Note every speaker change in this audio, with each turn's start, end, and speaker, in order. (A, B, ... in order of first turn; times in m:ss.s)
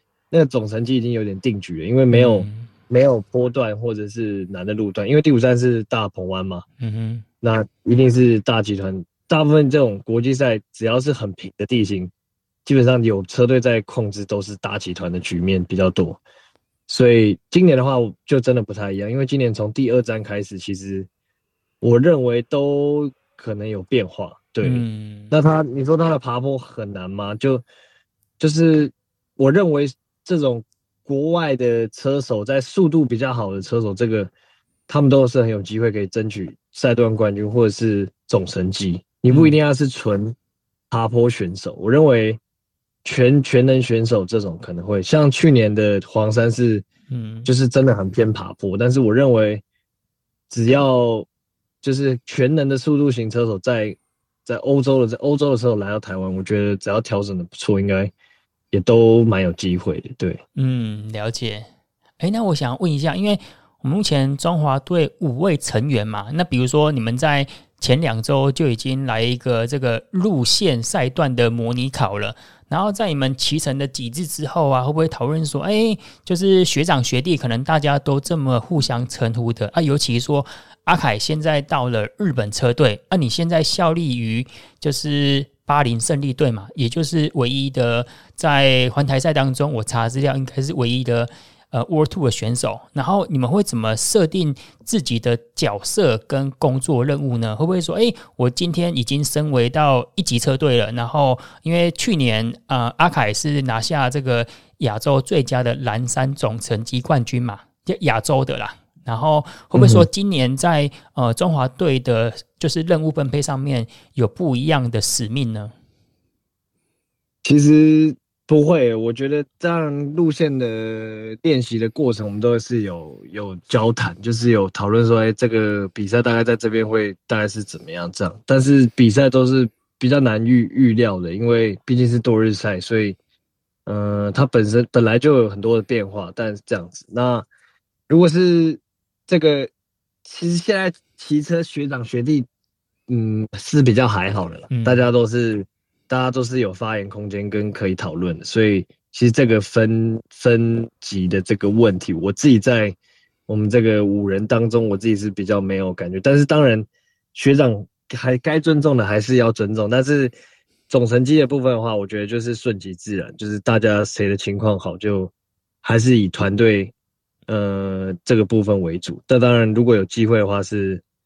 0:00.3-0:06.6 A
0:02.1-0:02.7 B
0:06.8-0:07.2 B
0:07.4-0:12.1 A
0:12.7-0:16.2 A
0:16.9-0:21.1 A
0:21.8-0:27.6 A
0:24.6-0:25.3 B
0:28.4-0:34.3 A
0:34.9-0:40.4 A
0:39.3-0:39.6 B
0:40.9-0:42.4 A
0:43.0-0:46.8 A
0:47.1-0:47.5 B
0:47.4-0:49.6 A
0:50.5-0:51.3 A
0:51.8-0:58.1 A
0:58.7-1:00.4 A
1:00.6-1:01.7 B
1:02.2-1:55.7 B
1:49.8-1:50.1 A
1:57.4-2:13.2 A
2:13.9-2:17.5 A
2:18.1-2:19.7 A
2:20.2-2:22.5 A
2:23.1-2:33.0 A
2:24.7-2:25.1 B
2:33.5-2:40.3 A
2:40.9-2:45.3 A
2:45.8-2:46.9 A
2:47.5-2:51.0 A